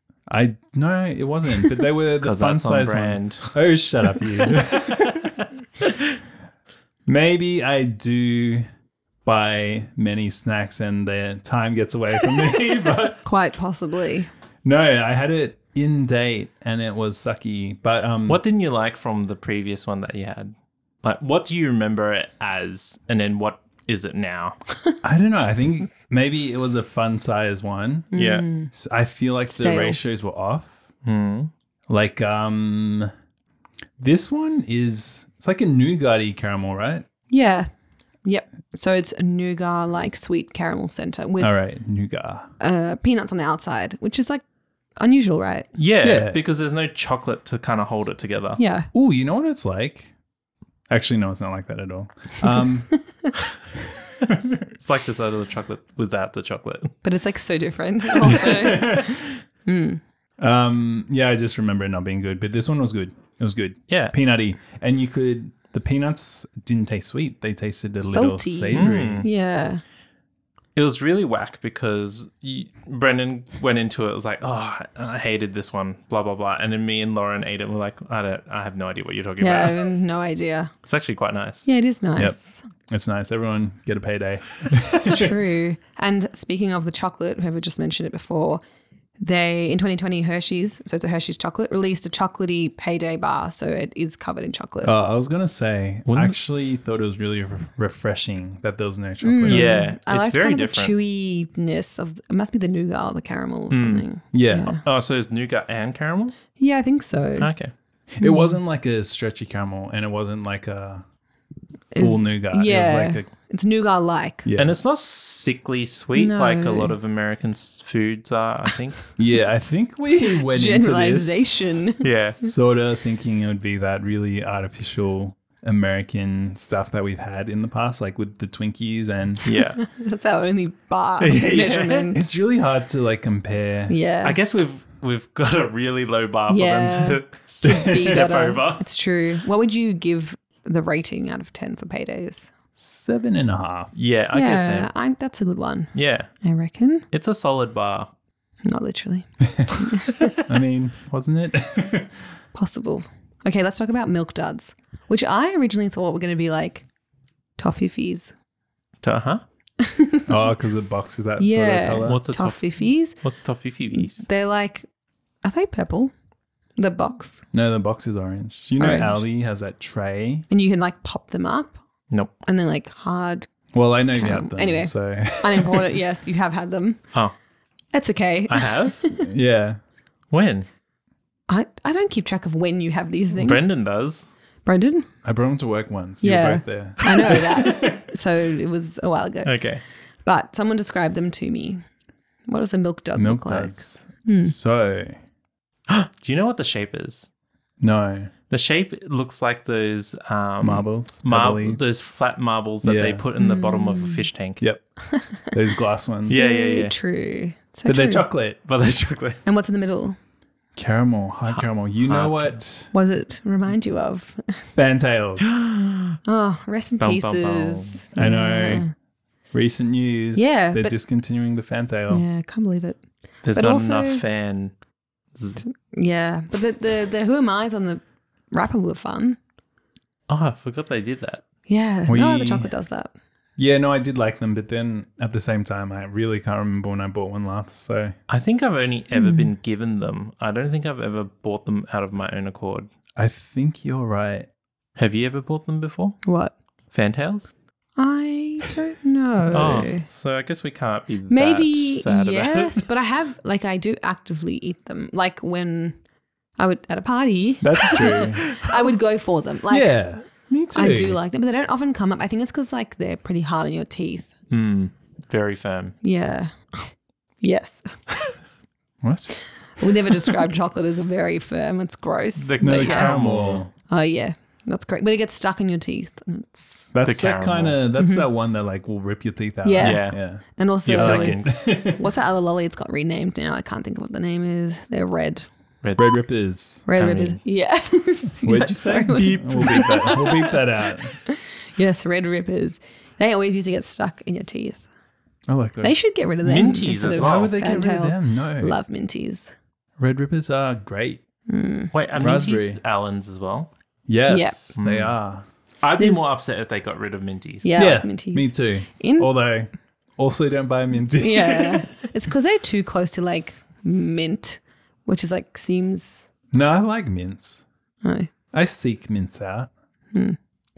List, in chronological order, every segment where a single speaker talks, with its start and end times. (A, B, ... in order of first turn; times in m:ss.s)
0:00.3-0:05.4 A
0:02.2-0:03.6 B
0:04.4-0:06.0 B
0:07.1-0:08.7 A
0:09.2-0:13.2 A
0:13.2-0:14.3 C
0:14.6-0:18.4 A
0:18.3-0:24.6 B
0:25.0-0:28.1 A
0:28.1-0:28.7 C
0:28.1-0:28.5 B
0:28.7-0:30.8 A
0:29.5-0:30.0 C
0:31.0-0:31.5 B
0:31.9-0:33.1 A
0:34.0-0:37.0 A
0:37.3-0:37.7 C
0:38.2-0:41.6 C
0:41.4-0:42.5 A
0:42.6-0:44.4 C
0:45.0-0:45.7 C
0:45.8-0:48.6 B
0:46.0-0:46.4 A
0:48.6-0:48.9 C
0:48.9-0:50.1 A
0:50.9-0:53.0 A
0:52.9-0:53.3 C
0:53.7-0:54.6 A
0:54.6-0:57.0 B
0:57.0-1:00.0 C
0:58.5-0:59.1 A
1:00.4-1:09.3 A
1:03.9-1:04.1 B
1:08.0-1:09.8 C
1:08.7-1:09.3 B
1:10.8-1:20.0 B
1:19.4-1:20.7 C
1:20.9-1:21.7 B
1:21.6-1:22.6 C
1:22.2-1:25.4 A
1:25.0-1:28.6 C
1:29.2-1:35.0 C
1:34.8-1:39.8 A
1:36.1-1:36.4 B
1:39.2-1:44.8 C
1:39.5-1:41.0 B
1:43.7-1:44.1 B
1:44.3-1:44.8 A
1:44.7-1:46.4 B
1:46.6-1:47.5 C
1:47.4-1:47.7 B
1:48.1-1:51.0 A
1:48.2-1:48.6 C
1:51.9-1:54.5 C
1:51.9-1:53.3 A
1:54.4-1:54.8 A
1:54.6-1:59.0 B
1:56.2-1:57.0 C
1:59.2-2:01.8 A
2:00.2-2:02.0 C
2:02.0-2:02.4 B
2:02.4-2:09.4 A
2:09.4-2:09.8 B
2:09.6-2:12.2 C
2:11.2-2:12.1 B
2:12.1-2:14.0 A
2:13.9-2:14.4 C
2:14.2-2:18.8 B
2:16.5-2:22.5 C
2:17.7-2:18.2 A
2:22.8-2:24.0 A
2:24.0-2:24.9 B
2:24.3-2:27.1 C
2:25.9-2:26.3 B
2:27.1-2:28.1 B
2:28.7-2:30.4 C
2:30.4-2:32.2 A
2:32.5-2:36.9 C
2:37.6-2:38.3 C
2:39.0-2:39.4 B
2:39.8-2:40.3 C
2:40.3-2:42.2 A
2:41.4-2:43.2 C
2:42.0-2:44.3 B
2:43.9-2:44.9 C
2:45.4-2:46.1 C
2:46.8-2:47.4 C
2:47.5-2:50.5 A
2:48.8-2:49.2 C
2:50.5-2:51.8 C
2:52.4-2:53.5 C
2:53.7-2:55.9 A
2:54.1-2:57.0 C
2:57.9-2:59.3 C
2:58.5-2:59.0 B
2:59.2-2:59.8 A
3:00.3-3:00.7 B
3:01.5-3:03.7 C
3:03.4-3:04.3 B
3:04.6-3:05.1 C
3:05.2-3:08.0 A
3:06.2-3:09.6 C
3:09.4-3:09.8 B
3:10.2-3:11.8 C
3:12.5-3:14.6 C
3:13.2-3:15.2 A
3:15.9-3:17.3 B
3:17.8-3:18.3 A
3:18.5-3:24.6 B
3:20.6-3:21.8 A
3:22.8-3:23.2 A
3:23.4-3:24.3 C
3:24.6-3:24.9 A
3:25.0-3:25.5 C
3:25.4-3:26.4 A
3:26.3-3:27.0 B
3:26.3-3:28.3 C
3:27.9-3:28.6 A
3:28.6-3:29.4 B
3:29.4-3:30.2 C
3:30.8-3:32.9 A
3:31.5-3:32.6 B
3:32.9-3:34.6 C
3:34.7-3:35.7 A
3:35.4-3:36.2 B
3:36.3-3:38.9 C
3:37.0-3:38.1 B
3:38.2-3:38.9 A
3:39.5-3:42.2 A
3:40.4-3:41.0 C
3:42.1-3:43.0 C
3:43.4-3:44.7 B
3:43.5-3:44.2 C
3:45.4-3:45.6 B
3:45.6-3:49.4 C
3:50.3-3:51.4 B
3:51.7-3:53.1 C
3:52.1-3:52.7 A
3:53.6-3:58.2 A
3:58.3-4:02.9 B
3:59.1-3:59.5 C
4:03.2-4:04.5 A
4:05.0-4:06.2 B
4:06.2-4:06.6 C
4:06.9-4:07.5 B
4:08.0-4:10.1 C
4:09.5-4:12.9 B
4:11.3-4:16.0 C
4:16.6-4:20.0 C
4:17.6-4:18.6 A
4:19.7-4:21.2 A
4:20.7-4:24.3 C
4:24.5-4:26.0 B
4:26.0-4:28.0 C
4:29.0-4:29.4 A
4:29.8-4:33.2 C
4:32.4-4:33.6 B
4:32.6-4:33.7 A
4:33.9-4:36.9 C
4:36.9-4:42.1 A
4:37.0-4:37.8 B
4:38.0-4:38.2 C
4:39.6-4:45.5 C
4:39.8-4:40.2 B
4:40.8-4:41.6 B
4:45.8-4:46.2 B
4:46.0-4:46.9 A
4:46.9-4:54.9 C
4:47.0-4:47.4 B
4:48.4-4:51.2 A
4:49.6-4:50.0 B
4:55.5-4:56.0 A
4:55.8-4:59.5 C
4:56.4-4:57.5 B
4:57.1-4:58.8 A
5:00.0-5:01.2 A
5:01.5-5:01.9 C
5:01.9-5:03.7 B
5:02.2-5:02.8 A
5:04.1-5:05.4 A
5:04.3-5:04.8 C
5:04.8-5:05.1 B
5:05.8-5:07.7 B
5:06.0-5:06.3 C
5:07.6-5:09.3 C
5:07.8-5:11.9 A
5:11.2-5:16.3 C
5:16.5-5:17.6 A
5:18.0-5:18.3 C
5:18.5-5:19.7 A
5:20.1-5:20.4 C